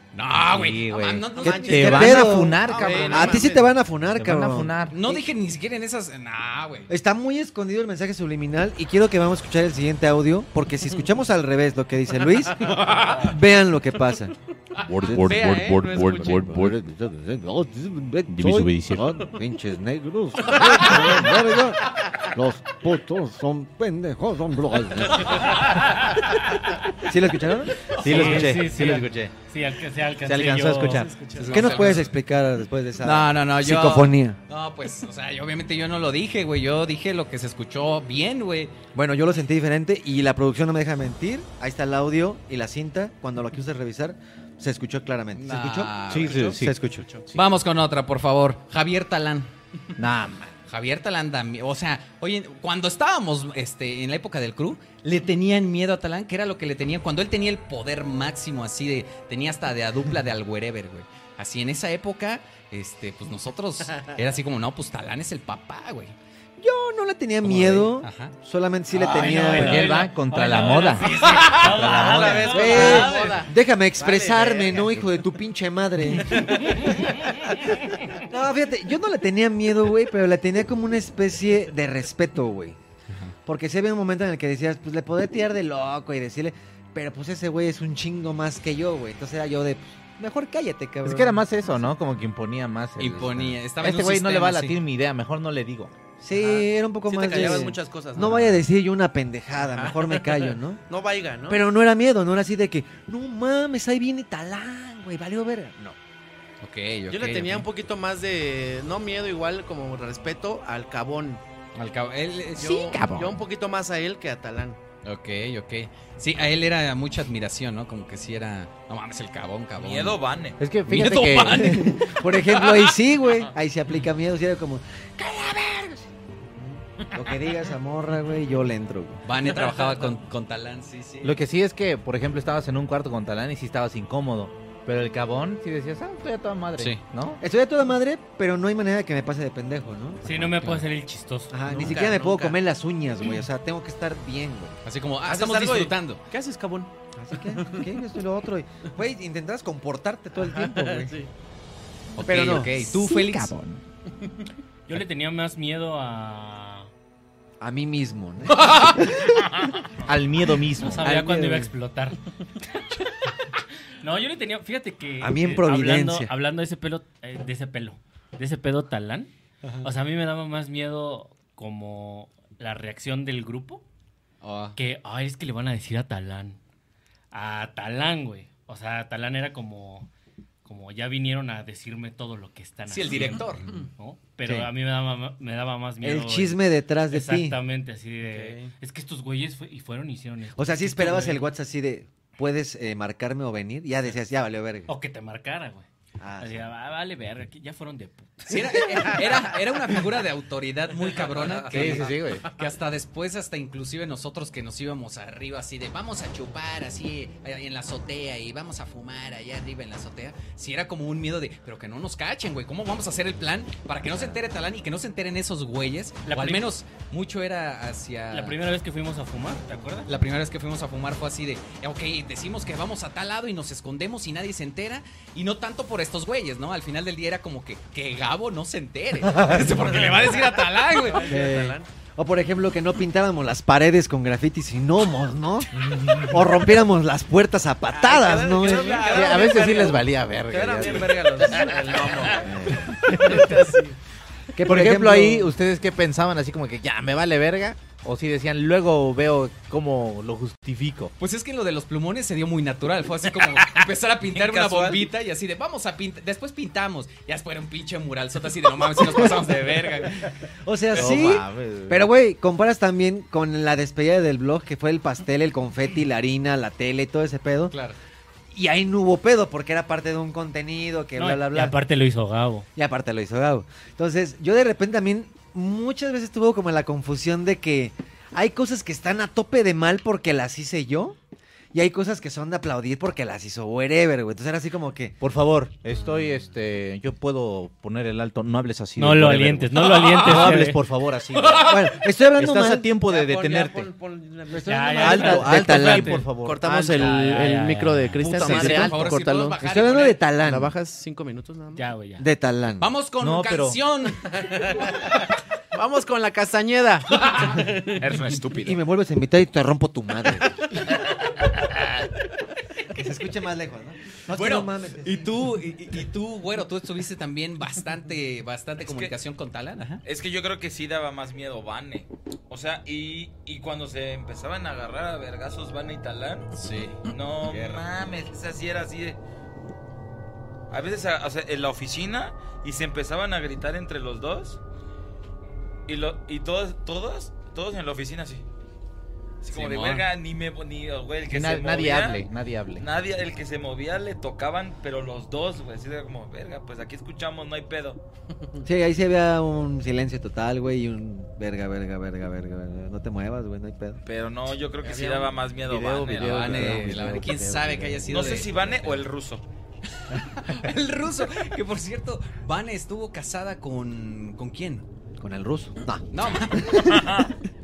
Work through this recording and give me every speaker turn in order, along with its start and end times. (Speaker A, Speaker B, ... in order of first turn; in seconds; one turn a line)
Speaker A: 0.1-3.4
Speaker B: 0.4-3.4
Speaker C: 1.4-3.6
Speaker D: 1.4-4.8
Speaker B: 4.2-5.2
Speaker A: 4.9-6.9
Speaker D: 6.9-14.3
Speaker E: 14.9-16.7
Speaker D: 15.0-15.4
Speaker C: 15.0-16.5
Speaker B: 15.3-16.7
Speaker D: 16.3-25.7
Speaker E: 18.3-19.0
Speaker D: 27.1-28.4
Speaker B: 28.0-29.3
Speaker F: 28.0-31.1
Speaker B: 30.3-31.0
Speaker D: 30.4-34.4
Speaker C: 30.9-31.9
Speaker A: 31.4-32.2
Speaker A: 33.0-38.8
Speaker D: 38.9-47.0
Speaker A: 45.4-46.6
Speaker B: 46.1-46.8
Speaker C: 46.2-47.3
Speaker A: 47.3-49.5
Speaker B: 50.0-50.5
Speaker A: 50.7-66.2
Speaker D: 66.6-69.9
Speaker A: 67.4-68.3
Speaker F: 69.0-73.4
Speaker B: 69.2-72.7
Speaker C: 71.2-75.0
Speaker D: 72.5-76.8
Speaker D: 78.2-82.8
Speaker D: 83.5-91.9
Speaker B: 91.0-95.9
Speaker A: 93.0-94.8
Speaker D: 96.2-100.8
Speaker C: 96.3-98.5
Speaker C: 99.6-101.6
Speaker D: 101.5-106.0
Speaker A: 106.6-107.7
Speaker C: 107.1-111.4
Speaker A: 111.8-112.9
Speaker C: 112.6-114.8
Speaker B: 112.7-113.4
Speaker A: 115.0-120.2
Speaker G: 119.8-120.6
Speaker B: 120.6-121.9
Speaker A: 120.9-122.9
Speaker D: 121.5-129.2
Speaker A: 129.3-131.4
Speaker C: 129.7-129.9
Speaker B: 131.2-137.4
Speaker A: 136.8-137.0
Speaker D: 137.4-140.5
Speaker F: 140.2-141.6
Speaker D: 141.5-144.8
Speaker C: 141.7-142.6
Speaker A: 144.8-146.2
Speaker C: 145.3-146.9
Speaker D: 147.2-151.2
Speaker C: 147.6-147.9
Speaker C: 150.4-151.3
Speaker A: 152.2-153.5
Speaker D: 152.2-152.7
Speaker B: 152.8-153.8
Speaker F: 154.9-156.9
Speaker D: 157.6-159.5
Speaker B: 160.1-161.3
Speaker F: 160.8-162.2
Speaker F: 164.0-169.3
Speaker D: 165.2-166.3
Speaker F: 169.8-173.8
Speaker A: 174.4-174.8
Speaker F: 174.8-176.6
Speaker F: 177.3-180.1
Speaker F: 180.7-191.5
Speaker A: 182.9-183.7
Speaker D: 186.0-187.6
Speaker D: 190.6-194.9
Speaker F: 194.9-195.9
Speaker D: 196.2-196.7
Speaker F: 196.4-198.8
Speaker A: 198.5-218.6
Speaker G: 201.2-201.6
Speaker B: 201.7-202.5
Speaker F: 216.3-216.7
Speaker F: 218.3-220.1
Speaker A: 220.1-231.3
Speaker C: 231.0-231.9
Speaker D: 231.2-239.4
Speaker B: 235.9-236.3
Speaker C: 237.9-244.0
Speaker B: 239.1-241.3
Speaker G: 241.4-242.3
Speaker B: 242.5-243.5
Speaker D: 244.6-245.5
Speaker B: 244.7-251.1
Speaker A: 251.2-260.3
Speaker G: 254.3-255.1
Speaker D: 260.6-267.8
Speaker B: 260.9-262.0
Speaker A: 267.7-268.0
Speaker D: 268.5-271.8
Speaker F: 271.2-272.7
Speaker D: 272.8-281.2
Speaker D: 281.7-285.1
Speaker B: 285.2-291.8
Speaker F: 289.0-290.8
Speaker D: 291.6-292.9
Speaker B: 292.4-293.9
Speaker C: 293.0-295.5
Speaker D: 294.5-296.3
Speaker F: 294.6-296.3
Speaker B: 295.0-297.2
Speaker C: 296.4-299.6
Speaker F: 296.9-298.2
Speaker B: 298.2-299.0
Speaker A: 298.4-300.2
Speaker D: 299.6-300.7
Speaker C: 300.4-301.9
Speaker F: 301.8-302.3
Speaker D: 302.2-302.9
Speaker A: 302.8-304.2
Speaker B: 303.2-303.8
Speaker C: 304.3-305.1
Speaker C: 305.7-308.0
Speaker G: 308.0-308.8
Speaker D: 308.6-310.7
Speaker D: 312.9-315.3
Speaker A: 314.3-320.0
Speaker G: 318.8-319.1
Speaker G: 320.1-329.2
Speaker A: 326.6-327.8
Speaker G: 330.7-334.6
Speaker G: 335.9-338.4
Speaker A: 339.4-340.0
Speaker G: 339.5-342.3
Speaker B: 341.3-342.9
Speaker G: 342.8-348.0
Speaker D: 348.6-354.0
Speaker G: 354.0-356.9
Speaker C: 354.8-355.3
Speaker B: 355.6-358.1
Speaker A: 356.1-359.1
Speaker G: 358.1-359.4
Speaker A: 360.1-364.9
Speaker D: 365.2-367.0
Speaker A: 366.1-367.1
Speaker G: 366.8-367.3